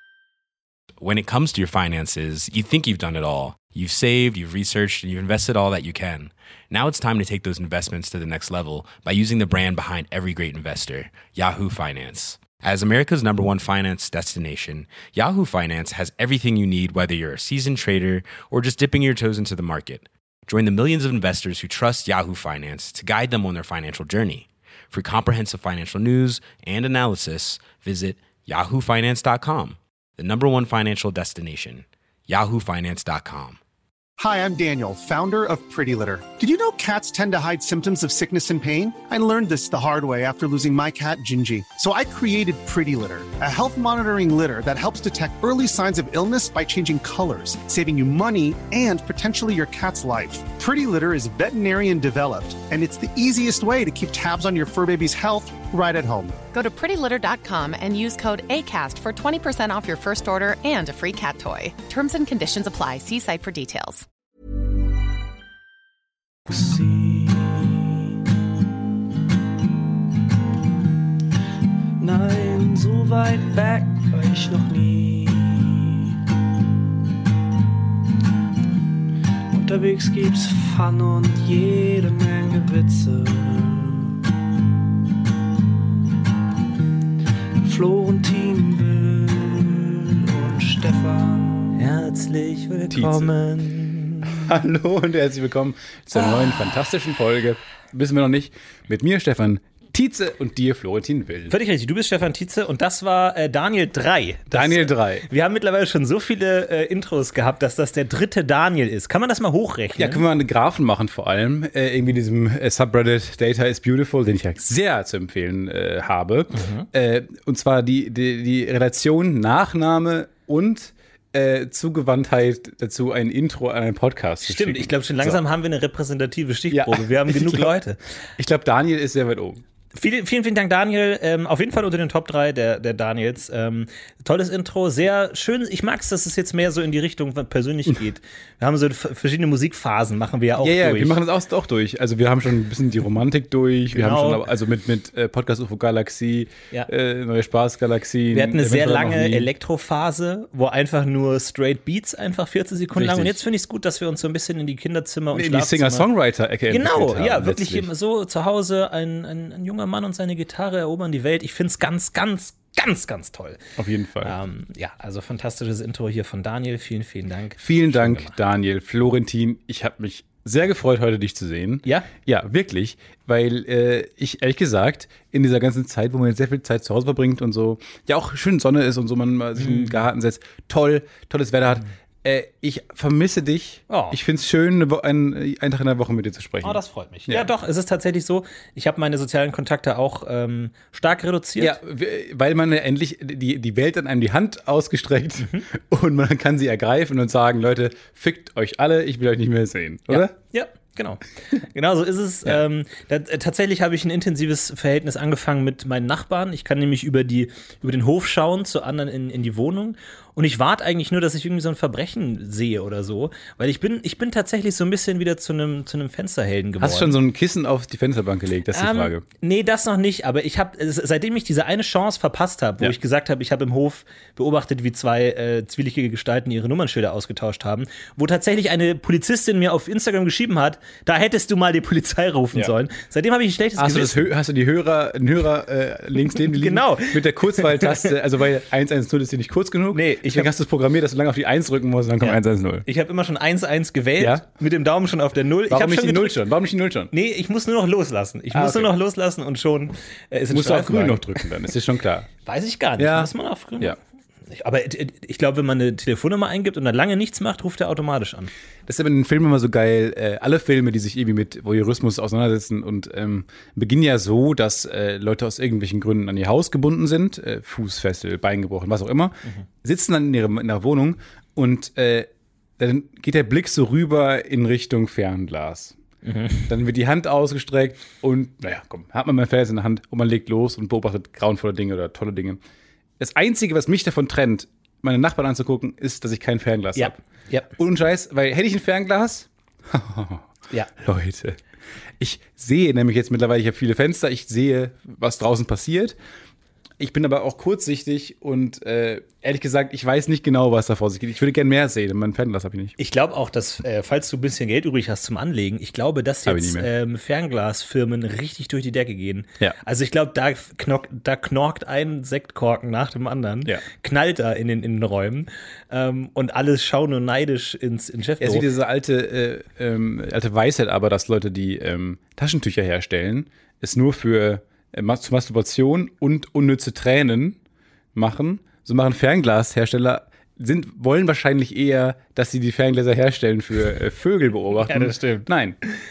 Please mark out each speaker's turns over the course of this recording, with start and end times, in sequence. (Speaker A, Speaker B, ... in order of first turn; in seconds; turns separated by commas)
Speaker A: 1.0-33.6, Speaker B: 34.2-56.4, Speaker C: 56.5-64.0, Speaker D: 66.5-68.2, Speaker D: 72.0-76.2, Speaker D: 79.5-84.1, Speaker D: 87.6-91.8, Speaker E: 91.8-94.5, Speaker F: 92.9-93.3, Speaker F: 94.2-101.5, Speaker E: 101.5-110.2, Speaker F: 104.5-105.2, Speaker F: 110.0-125.4, Speaker E: 116.5-116.9, Speaker E: 124.4-128.0, Speaker F: 126.7-127.7, Speaker F: 128.4-129.6, Speaker E: 129.9-141.2, Speaker F: 140.6-149.5, Speaker E: 143.9-144.4, Speaker E: 148.3-156.1, Speaker F: 152.9-153.4, Speaker F: 155.3-157.9, Speaker E: 156.7-163.6, Speaker F: 163.8-164.3, Speaker E: 164.2-168.3, Speaker F: 167.6-187.5, Speaker E: 179.6-179.9, Speaker E: 183.9-184.2, Speaker E: 186.6-191.8, Speaker F: 191.6-200.3, Speaker E: 195.4-195.7, Speaker E: 200.1-217.2, Speaker F: 216.8-219.2, Speaker E: 218.7-234.3, Speaker F: 233.8-242.8, Speaker E: 236.4-238.1, Speaker E: 239.9-240.5, Speaker E: 242.2-246.4, Speaker F: 244.2-244.4, Speaker F: 245.7-247.1, Speaker E: 247.1-251.4, Speaker F: 248.5-248.9, Speaker F: 250.5-252.3, Speaker E: 252.4-253.9, Speaker F: 253.0-253.9, Speaker E: 254.5-258.5, Speaker F: 258.9-272.3, Speaker F: 272.8-275.9, Speaker E: 276.2-276.7, Speaker F: 276.6-282.6, Speaker F: 283.2-287.2, Speaker E: 286.9-287.7, Speaker F: 287.7-291.6, Speaker F: 292.2-296.2, Speaker F: 297.0-303.0, Speaker E: 303.0-318.7, Speaker F: 306.4-306.9, Speaker F: 318.4-327.6, Speaker F: 328.1-335.8, Speaker E: 334.9-335.5